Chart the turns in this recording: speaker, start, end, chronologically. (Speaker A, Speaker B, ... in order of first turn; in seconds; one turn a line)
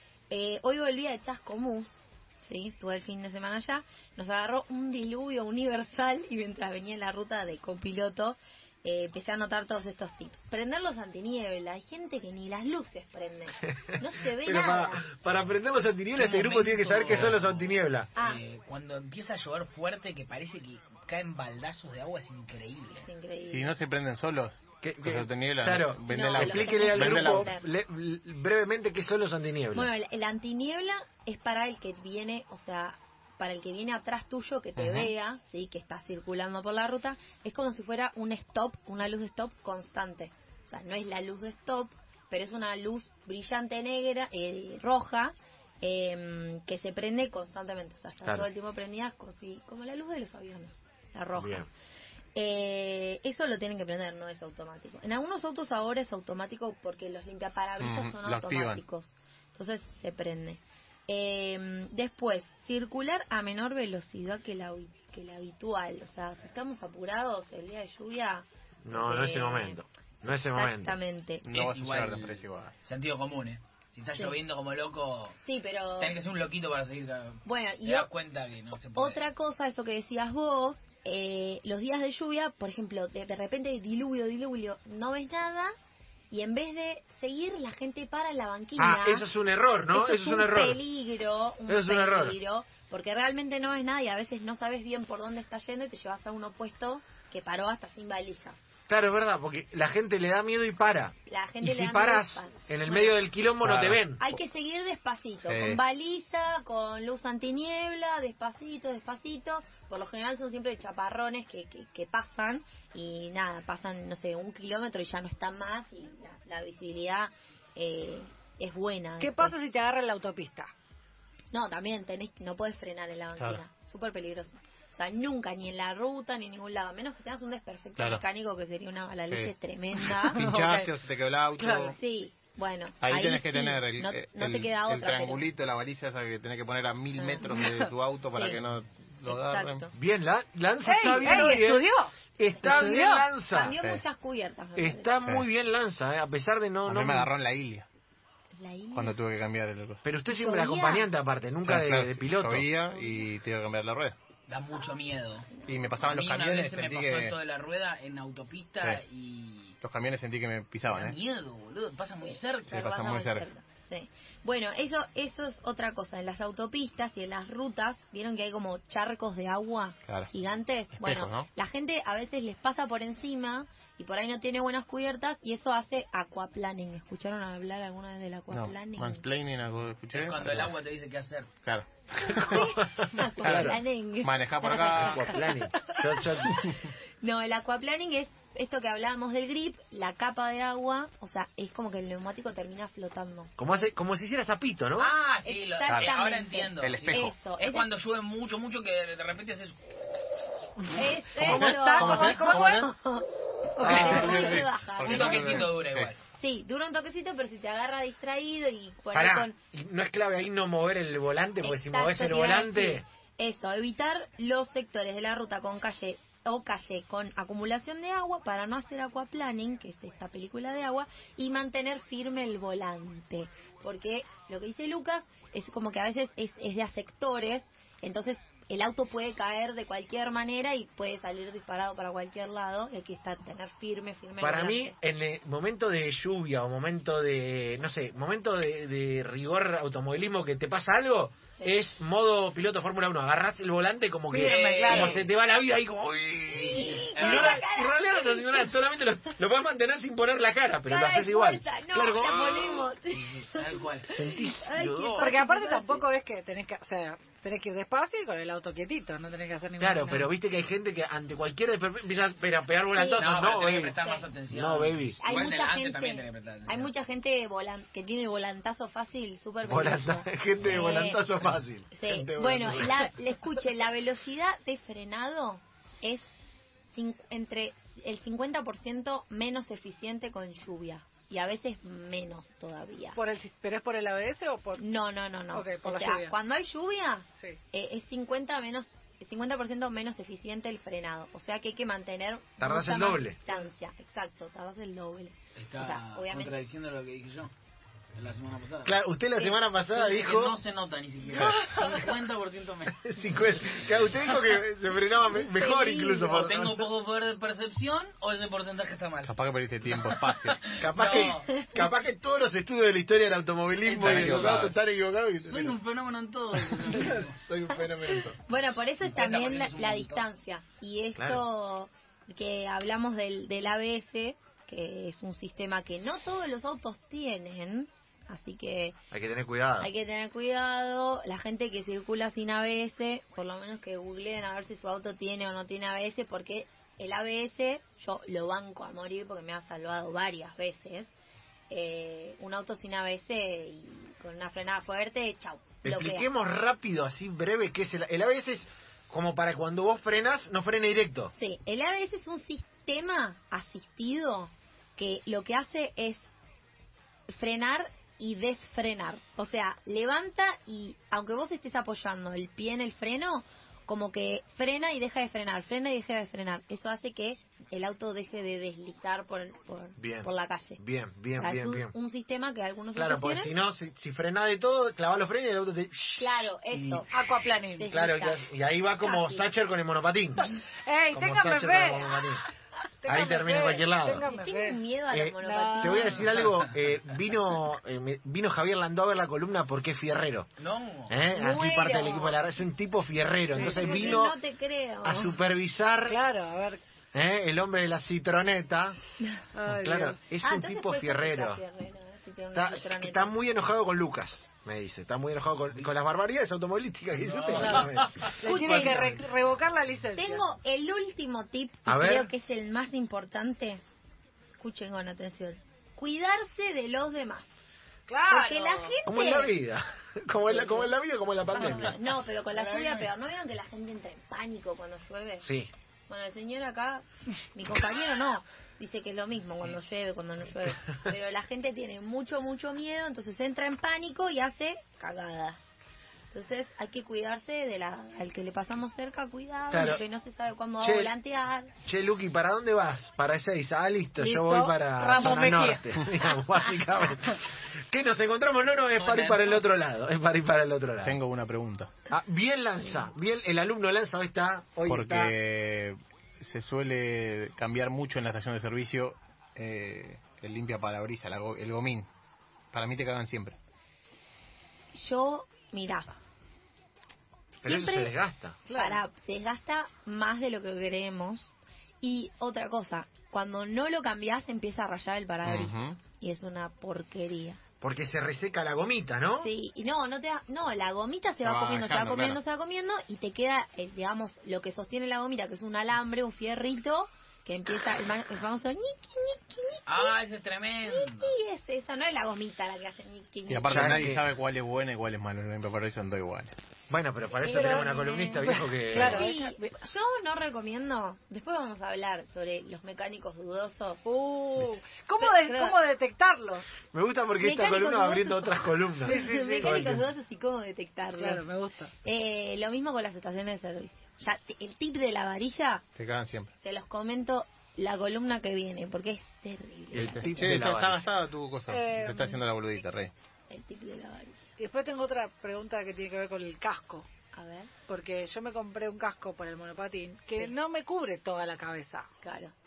Speaker A: 0.3-15.1
Speaker B: 13.7-18.1
Speaker C: 16.1-23.1
Speaker A: 18.1-18.4
Speaker A: 23.0-23.7
Speaker D: 23.4-27.5
Speaker B: 24.8-29.9
Speaker A: 26.1-27.6
Speaker A: 29.7-51.7
Speaker D: 34.8-35.1
Speaker B: 51.4-51.7
Speaker A: 52.4-69.8
Speaker D: 57.8-58.8
Speaker B: 68.8-71.0
Speaker A: 70.5-71.4
Speaker D: 71.4-72.7
Speaker C: 71.5-75.4
Speaker A: 75.4-76.2
Speaker C: 76.0-79.2
Speaker A: 77.4-78.1
Speaker A: 79.0-85.7
Speaker A: 86.3-89.2
Speaker B: 88.8-90.8
Speaker A: 89.9-98.6
Speaker B: 91.7-92.4
Speaker B: 98.9-104.2
Speaker A: 101.2-103.2
Speaker D: 103.6-104.0
Speaker A: 104.2-119.6
Speaker D: 105.5-105.8
Speaker E: 119.2-120.7
Speaker A: 121.5-130.5
Speaker D: 128.0-128.2
Speaker D: 130.0-132.0
Speaker E: 130.3-130.9
Speaker E: 131.6-131.9
Speaker A: 131.9-135.4
Speaker D: 133.0-139.9
Speaker A: 137.2-137.6
Speaker A: 138.3-138.6
Speaker A: 139.2-139.9
Speaker B: 139.9-141.8
Speaker E: 140.8-143.2
Speaker B: 142.4-143.7
Speaker A: 142.6-142.9
Speaker A: 143.5-145.1
Speaker D: 143.7-144.0
Speaker B: 144.8-147.3
Speaker D: 146.8-147.8
Speaker A: 148.6-149.2
Speaker D: 148.9-150.0
Speaker B: 150.0-152.7
Speaker A: 150.3-151.1
Speaker D: 151.6-154.1
Speaker A: 152.9-153.2
Speaker C: 154.5-159.8
Speaker A: 155.6-155.8
Speaker D: 155.7-157.3
Speaker D: 159.8-161.2
Speaker C: 160.9-162.8
Speaker A: 162.2-179.2
Speaker D: 162.7-163.5
Speaker D: 171.0-171.5
Speaker D: 178.5-180.7
Speaker C: 180.1-181.5
Speaker D: 181.6-182.7
Speaker A: 182.2-185.4
Speaker B: 182.3-183.8
Speaker D: 183.4-185.3
Speaker B: 184.9-186.7
Speaker A: 186.6-193.5
Speaker B: 193.6-195.1
Speaker C: 195.0-200.4
Speaker A: 195.4-197.9
Speaker D: 195.9-196.1
Speaker D: 196.8-197.3
Speaker A: 200.9-205.7
Speaker E: 201.4-202.8
Speaker D: 201.4-202.9
Speaker D: 203.8-206.1
Speaker B: 203.8-204.4
Speaker C: 205.0-206.2
Speaker A: 206.3-209.6
Speaker B: 209.1-213.0
Speaker A: 211.6-234.9
Speaker B: 234.4-252.9
Speaker E: 244.3-245.2
Speaker C: 244.3-245.3
Speaker A: 246.5-248.7
Speaker C: 246.8-247.6
Speaker A: 250.8-256.0
Speaker C: 253.1-254.1
Speaker B: 254.1-255.3
Speaker E: 255.2-260.3
Speaker B: 259.8-264.0
Speaker A: 262.9-264.3
Speaker C: 263.1-266.9
Speaker B: 264.5-265.2
Speaker A: 265.2-271.2
Speaker B: 269.6-273.1
Speaker A: 271.9-276.2
Speaker A: 276.9-283.2
Speaker E: 283.1-284.8
Speaker A: 284.8-296.6
Speaker E: 285.5-286.3
Speaker B: 292.6-293.4
Speaker C: 295.6-297.5
Speaker C: 298.1-299.0
Speaker B: 298.8-300.6
Speaker C: 299.9-303.1
Speaker D: 301.3-301.7
Speaker B: 303.0-306.9
Speaker A: 305.3-306.5
Speaker C: 306.3-309.3
Speaker D: 309.2-310.6
Speaker C: 309.9-311.5
Speaker B: 310.8-315.8
Speaker A: 311.1-311.7
Speaker C: 313.9-314.7
Speaker D: 313.9-314.8
Speaker C: 315.4-317.4
Speaker B: 316.8-318.4
Speaker A: 318.0-328.9
Speaker C: 319.0-320.2
Speaker B: 321.1-321.4
Speaker B: 329.1-329.9
Speaker A: 329.8-341.1
Speaker A: 341.7-346.3
Speaker B: 345.8-351.3
Speaker A: 351.3-356.3
Speaker A: 357.3-370.8
Speaker B: 370.0-371.9
Speaker A: 371.4-373.5
Speaker B: 372.9-377.0
Speaker A: 376.2-377.1
Speaker E: 377.1-377.9
Speaker A: 377.8-378.5
Speaker B: 377.9-380.5
Speaker A: 379.0-379.5
Speaker E: 380.8-382.1
Speaker B: 381.1-382.4
Speaker E: 383.0-384.8
Speaker B: 383.1-384.2
Speaker A: 384.2-386.4
Speaker B: 385.1-390.5
Speaker E: 385.4-386.3
Speaker C: 390.6-391.2
Speaker B: 391.1-394.4
Speaker A: 391.3-392.4
Speaker E: 393.5-394.2
Speaker A: 393.6-395.3
Speaker B: 395.0-396.2
Speaker E: 396.1-396.8
Speaker B: 397.1-399.0
Speaker E: 399.5-400.2
Speaker B: 399.7-401.6
Speaker A: 400.4-403.3
Speaker B: 402.5-409.2
Speaker C: 407.2-408.4
Speaker E: 407.6-410.4
Speaker A: 408.4-409.2
Speaker A: 410.1-413.8
Speaker B: 411.9-412.3
Speaker A: 414.6-417.6
Speaker E: 418.1-418.9
Speaker A: 418.3-419.5
Speaker B: 419.0-422.0
Speaker A: 421.5-425.5
Speaker B: 425.4-425.7
Speaker A: 426.1-435.7
Speaker A: 436.3-441.7
Speaker B: 439.7-440.0
Speaker B: 440.8-441.1
Speaker B: 441.8-451.2
Speaker E: 444.2-445.9
Speaker C: 449.0-449.6
Speaker D: 451.0-451.9
Speaker B: 452.1-455.3
Speaker D: 454.9-462.1
Speaker D: 462.7-463.6
Speaker A: 464.9-466.1
Speaker B: 467.6-468.6
Speaker A: 467.6-468.1
Speaker E: 468.7-469.0
Speaker A: 468.7-471.5
Speaker A: 472.0-477.6
Speaker D: 475.4-476.0
Speaker B: 477.8-479.5
Speaker A: 479.4-490.2
Speaker D: 481.4-482.4
Speaker C: 489.9-491.3
Speaker A: 490.8-494.1
Speaker D: 493.5-496.5
Speaker B: 493.7-494.2
Speaker B: 496.9-499.3
Speaker E: 497.4-499.7
Speaker A: 497.4-498.4
Speaker A: 498.9-504.0
Speaker E: 504.1-506.7
Speaker A: 505.2-505.8
Speaker B: 506.9-510.0
Speaker A: 507.4-511.5
Speaker E: 509.0-509.9
Speaker E: 511.2-511.9
Speaker A: 512.0-515.8
Speaker D: 516.0-516.5
Speaker A: 516.6-520.3
Speaker B: 519.9-521.0
Speaker D: 520.3-523.1
Speaker E: 521.7-522.4
Speaker A: 523.5-524.5
Speaker E: 524.6-527.1
Speaker A: 527.3-527.7
Speaker E: 527.9-532.1
Speaker A: 532.2-532.5